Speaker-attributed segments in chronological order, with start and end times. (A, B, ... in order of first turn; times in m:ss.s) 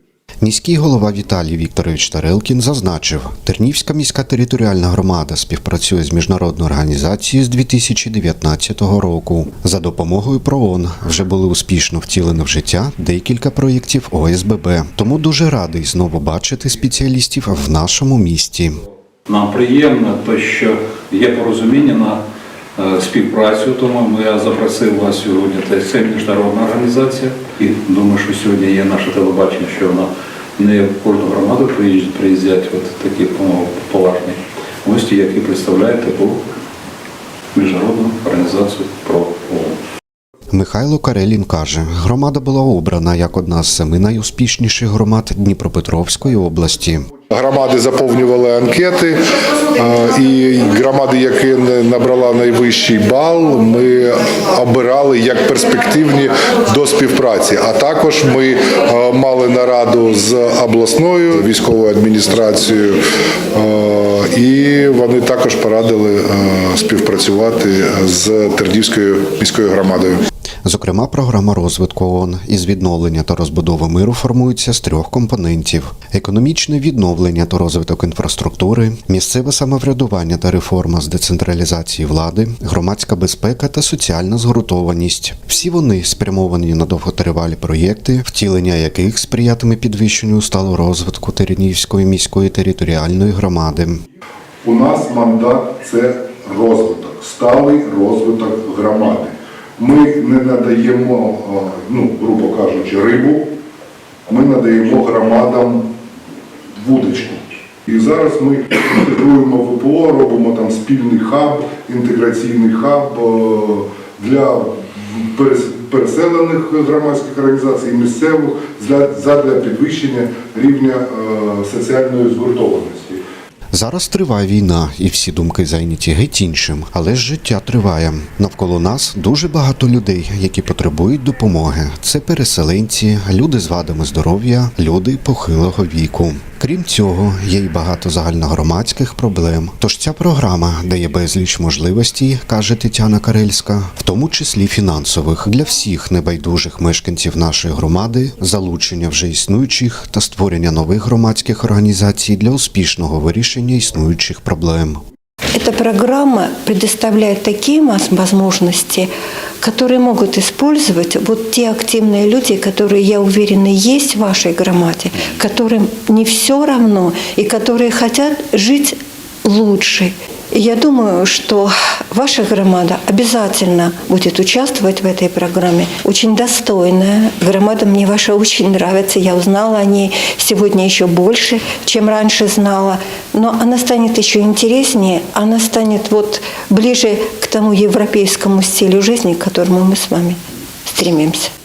0:00.4-0:18.8 A
0:19.3-0:22.2 B
0:22.8-0:36.4 B
0:37.5-0:39.8 B
0:40.5-0:47.0 A
0:47.3-1:10.3 C
1:10.6-1:34.0 A
1:34.6-1:43.5 C
1:44.3-1:45.9 C
1:46.8-2:03.2 C
2:03.7-2:35.0 A
2:35.5-2:39.1 D
2:39.6-3:11.5 D